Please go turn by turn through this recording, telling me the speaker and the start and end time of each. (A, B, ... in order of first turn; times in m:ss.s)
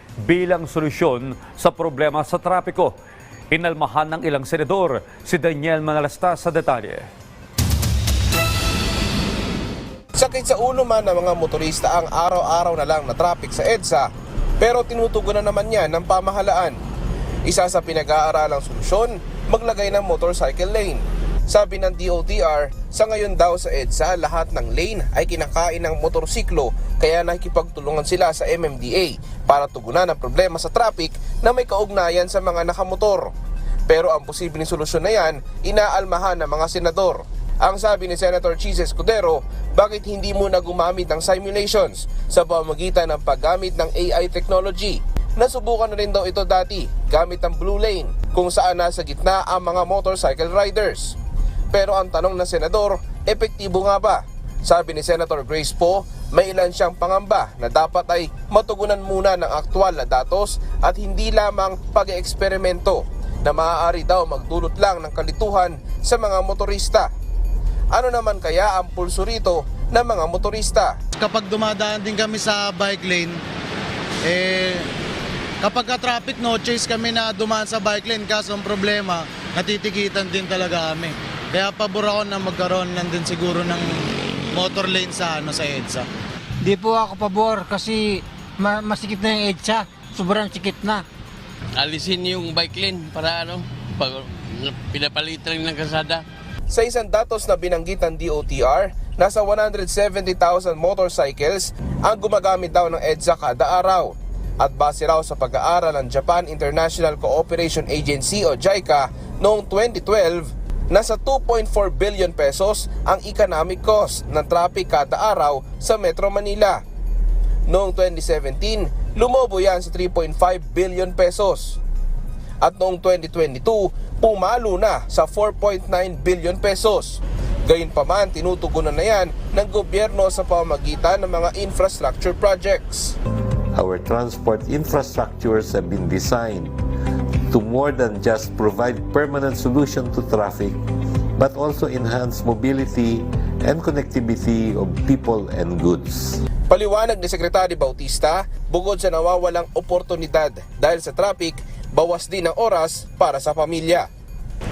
0:00.2-0:02.9 A
0:03.5-0:07.0 A
0:10.2-0:16.8 B
0:17.4-0:33.3 B
0:33.9-0:51.2 B
0:51.7-1:07.1 B
1:07.9-1:11.0 B
1:11.2-1:13.4 C
1:14.2-1:14.9 C
1:15.6-1:26.1 C
1:26.6-1:31.0 D
1:31.8-1:36.2 E
1:36.7-1:56.8 B
1:57.7-2:01.8 B
2:02.6-2:13.2 B
2:13.7-2:16.8 F
2:17.5-2:20.8 F
2:21.4-2:26.4 F
2:26.7-2:34.1 B